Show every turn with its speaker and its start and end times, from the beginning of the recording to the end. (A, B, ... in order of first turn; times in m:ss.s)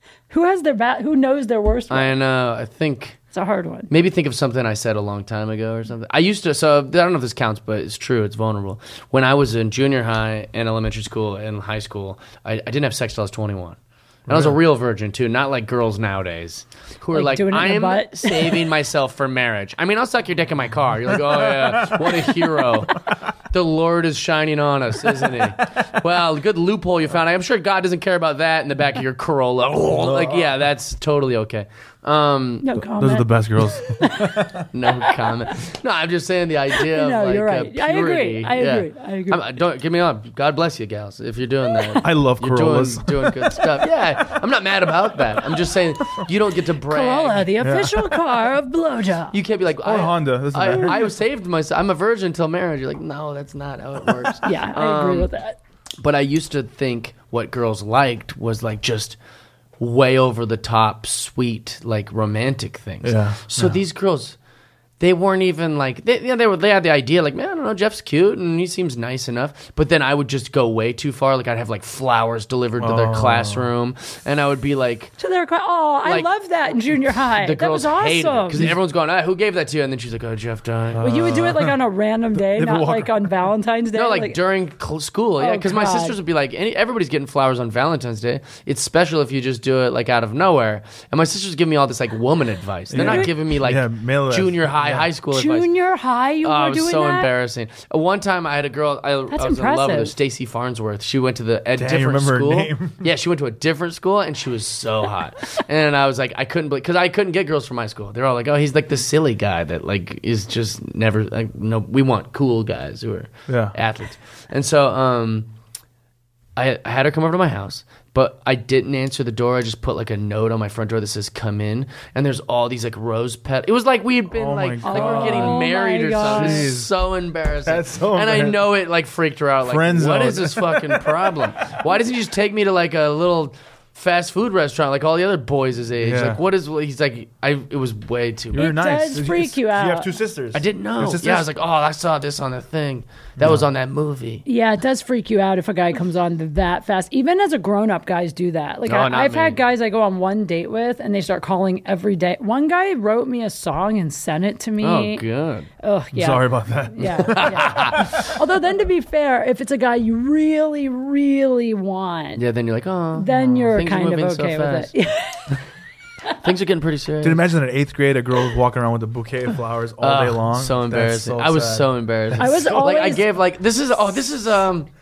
0:00.3-0:02.1 A
0:01.9-0:03.2 B
0:03.3-0:03.9 A
0:03.9-0:32.7 B
0:14.3-0:14.6 C
0:17.1-0:18.7 A
0:21.1-0:22.8 C
0:29.9-0:30.5 C
0:32.6-0:35.3 A
0:32.9-0:34.7 C
0:34.7-0:47.5 B
0:36.7-0:39.4 A
0:42.0-0:43.8 C
0:46.9-0:49.4 A
0:47.6-0:48.2 C
0:49.3-0:55.3 B
0:49.8-0:51.1 C
0:54.4-0:55.6 A
0:56.0-0:59.2 B
0:59.8-1:04.4 B
1:03.0-1:03.8 C
1:05.0-1:15.1 B
1:12.8-1:13.6 C
1:15.2-1:18.7 A
1:17.4-1:21.1 B
1:20.9-1:21.8 C
1:21.0-1:24.4 A
1:22.4-1:23.5 C
1:23.9-1:35.7 B
1:25.4-1:26.2 A
1:32.9-1:35.1 C
1:33.0-1:33.3 A
1:35.3-1:37.3 A
1:36.4-1:55.5 B
1:39.3-1:40.1 A
1:41.7-1:43.0 C
1:53.5-1:53.7 C
1:56.6-2:18.7 B
2:04.3-2:05.6 C
2:04.8-2:06.7 A
2:06.2-2:06.9 C
2:07.6-2:08.6 C
2:09.6-2:11.7 C
2:16.0-2:16.4 C
2:18.5-2:21.5 C
2:18.5-2:20.1 A
2:20.5-2:24.4 B
2:23.4-2:23.6 C
2:24.4-2:35.2 A
2:28.8-2:29.6 B
2:34.8-2:35.7 B
2:35.8-2:42.4 A
2:36.1-2:38.4 C
2:37.0-2:38.3 B
2:42.4-2:44.9 B
2:43.2-2:45.6 A
2:43.4-2:43.7 C
2:46.3-2:47.4 B
2:47.2-2:53.0 C
2:50.0-2:54.9 B
2:52.4-2:53.3 A